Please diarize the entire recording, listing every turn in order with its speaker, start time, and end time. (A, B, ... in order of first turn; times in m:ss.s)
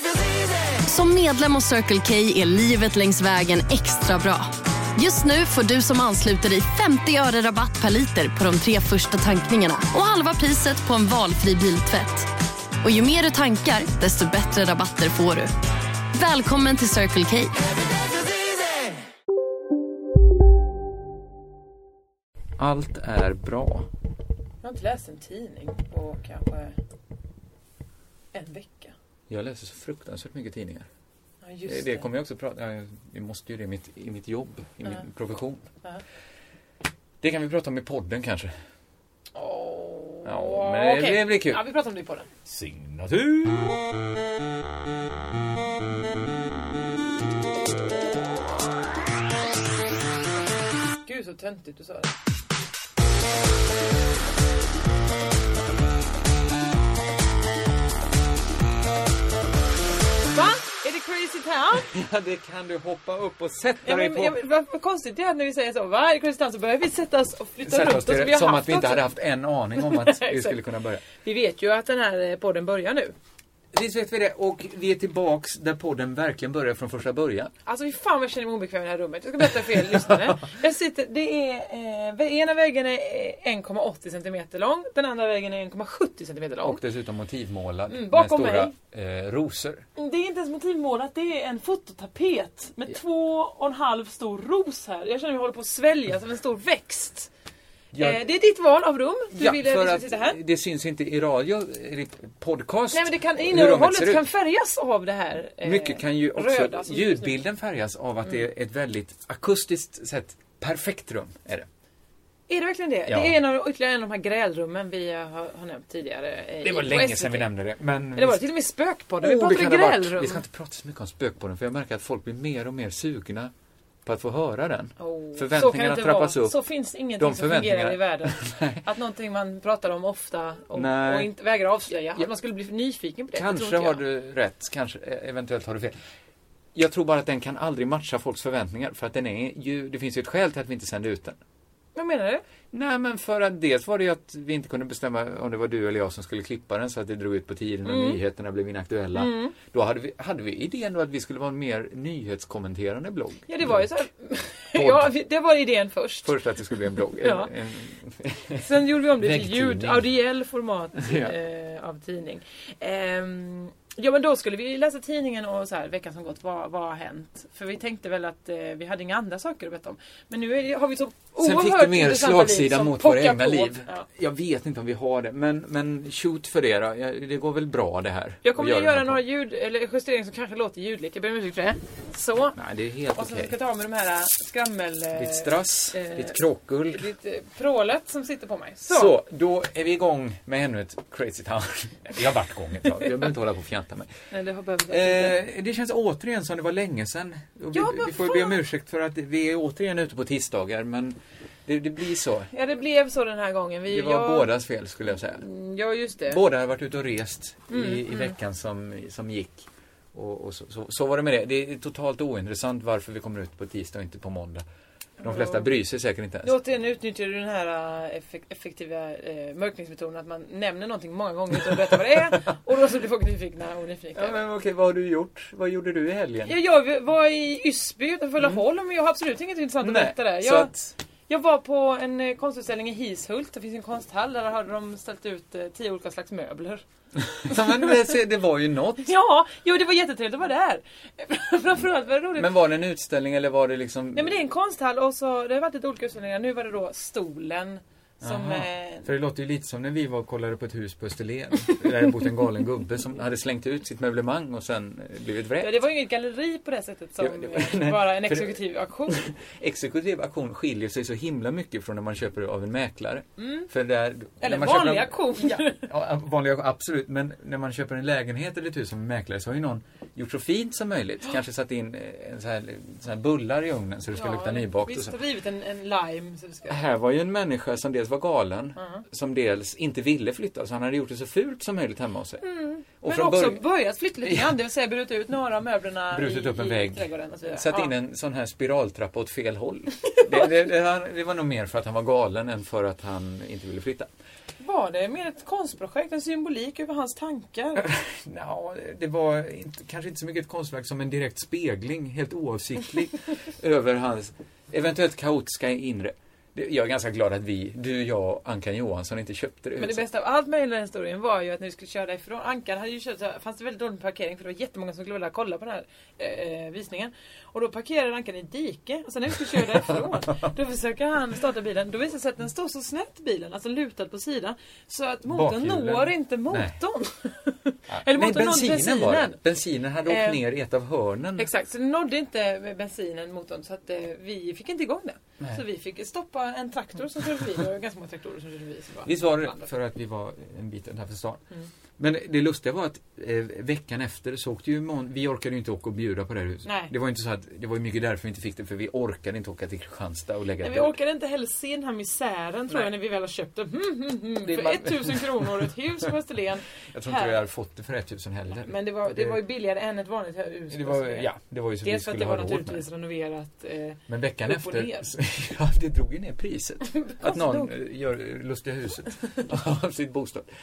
0:00.8-0:12.3 A
0:12.8-0:15.5 A
0:16.1-0:17.6 A
0:22.6-0:23.9 B
0:24.6-0:26.8 C
0:28.3-0:29.0 C
0:29.3-0:30.9 B
0:31.4-0:32.0 C
0:31.7-0:35.7 B
0:37.2-0:38.6 B
0:39.3-0:42.3 C
0:40.2-0:41.6 B
0:42.4-0:43.9 B
0:51.0-0:52.1 C
1:00.3-1:01.9 C
1:01.8-1:04.4 B
1:03.8-1:09.1 C
1:07.6-1:11.0 B
1:09.8-1:13.2 C
1:13.7-1:17.5 B
1:17.6-1:26.8 C
1:19.8-1:20.4 B
1:26.6-1:29.8 B
1:27.9-1:28.7 C
1:30.0-1:37.3 C
1:37.9-1:38.2 B
1:38.0-1:40.4 C
1:39.3-1:44.2 B
1:42.9-1:47.4 C
1:45.6-1:51.7 B
1:52.5-1:57.5 C
1:53.1-1:53.4 B
1:56.6-1:58.5 B
1:58.1-2:00.4 C
1:59.2-2:03.5 B
2:04.0-2:06.6 B
2:05.0-2:14.0 C
2:07.2-2:08.8 B
2:10.7-2:11.3 B
2:13.3-2:15.9 B
2:16.8-2:21.4 B
2:22.0-2:22.4 C
2:22.7-2:33.9 B
2:27.8-2:28.2 C
2:29.1-2:29.5 C
2:33.5-2:36.4 C
2:34.7-2:35.1 B
2:36.2-2:40.1 B
2:37.2-2:37.5 C
2:38.6-2:54.1 C
2:41.0-2:41.4 B
2:51.4-2:59.2 B
2:58.4-3:02.6 C
3:02.5-3:03.6 B
3:03.1-3:09.1 C
3:05.1-3:07.1 B
3:08.9-3:14.1 B
3:14.3-3:15.4 C
3:14.9-3:22.5 B
3:17.7-3:18.6 C
3:22.5-3:24.5 C
3:23.9-3:25.4 B
3:25.3-3:26.4 C
3:26.3-3:34.6 B
3:27.7-3:28.3 C
3:35.2-3:36.6 B
3:35.2-3:35.7 C
3:36.4-3:44.4 C
3:41.7-3:42.2 B
3:44.1-3:46.5 B
3:46.4-3:50.7 C
3:49.8-3:50.9 B
3:51.3-3:56.8 C
3:57.2-3:59.1 B
3:57.4-3:58.0 C
3:59.0-4:02.5 C
4:02.4-4:04.4 B
4:04.1-4:09.1 C
4:08.2-4:15.8 B
4:15.6-4:19.2 C
4:17.2-4:35.2 B
4:23.4-4:23.7 C
4:24.4-4:25.8 C
4:34.1-4:36.8 C
4:36.7-4:42.4 B
4:38.8-4:39.0 C
4:42.4-4:47.9 C
4:43.0-4:43.6 B
4:44.2-4:44.6 B
4:46.1-4:54.1 B
4:50.1-4:50.4 C
4:54.6-4:57.9 C
4:57.8-5:10.1 B
5:09.8-5:29.4 C
5:19.7-5:20.0 B
5:25.2-5:26.8 B
5:27.9-5:31.5 B
5:30.0-5:30.4 C
5:31.4-5:39.7 C
5:39.0-5:41.4 B
5:42.0-5:51.0 B
5:46.6-5:46.9 C
5:50.6-5:57.4 C
5:54.4-5:55.8 B
5:56.9-5:59.4 B
5:58.6-6:01.3 C
6:00.7-6:02.8 B
6:01.8-6:05.1 C
6:04.1-6:10.5 B
6:06.9-6:07.7 C